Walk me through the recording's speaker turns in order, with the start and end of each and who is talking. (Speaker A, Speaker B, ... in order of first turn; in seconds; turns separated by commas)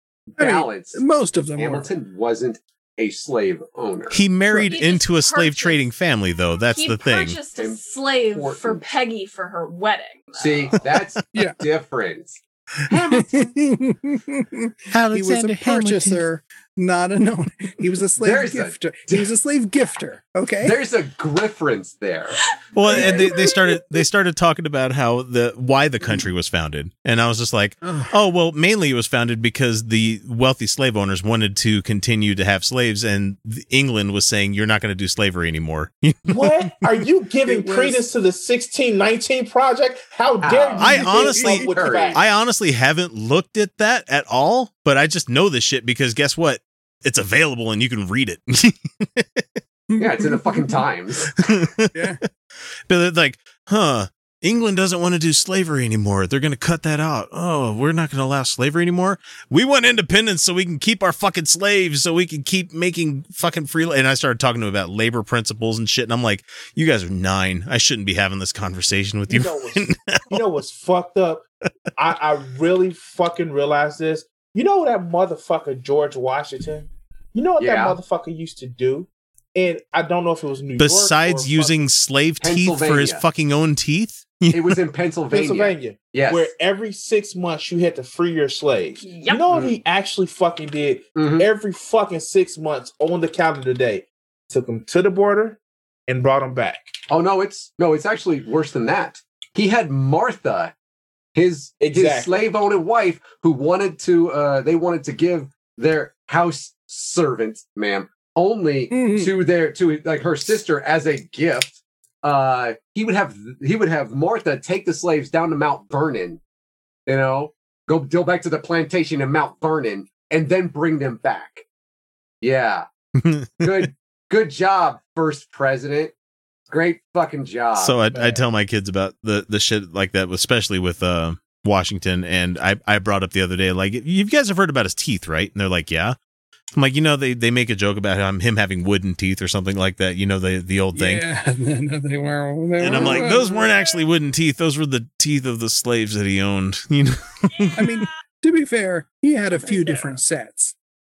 Speaker A: 0.3-1.0, Speaker B: 0.4-1.9, Speaker A: 1.6-4.2, Speaker C: 4.1-7.4, Speaker D: 4.5-5.8, Speaker D: 6.6-10.7, Speaker A: 7.6-8.9, Speaker A: 10.4-13.5, Speaker B: 11.3-11.6, Speaker B: 13.1-20.8, Speaker C: 14.9-16.2, Speaker A: 18.2-19.3, Speaker A: 20.6-23.3, Speaker C: 22.7-36.7, Speaker D: 23.0-23.3, Speaker B: 27.8-28.1, Speaker E: 36.3-42.2, Speaker B: 37.5-38.0, Speaker A: 40.4-42.2, Speaker C: 40.8-49.5, Speaker B: 40.9-41.7, Speaker B: 49.9-50.8, Speaker A: 50.0-51.3, Speaker C: 51.4-52.0, Speaker B: 51.9-52.2, Speaker C: 52.9-70.4, Speaker E: 69.3-71.5, Speaker E: 72.0-81.9, Speaker A: 77.6-78.0, Speaker C: 80.8-84.8, Speaker A: 82.4-83.2, Speaker A: 84.5-86.5, Speaker E: 85.3-96.8, Speaker D: 89.0-89.5, Speaker A: 91.2-91.5, Speaker A: 97.1-100.7, Speaker A: 101.3-116.4, Speaker E: 101.8-102.3, Speaker B: 108.9-109.3, Speaker A: 117.1-121.7, Speaker A: 122.4-122.9, Speaker C: 123.2-123.9, Speaker A: 123.6-126.1, Speaker A: 126.7-128.0, Speaker C: 127.8-136.2, Speaker E: 128.1-128.4, Speaker C: 136.8-141.2, Speaker B: 140.9-143.4, Speaker C: 142.8-147.5, Speaker D: 143.4-143.8, Speaker D: 147.6-148.1, Speaker B: 147.8-150.7, Speaker D: 149.5-150.1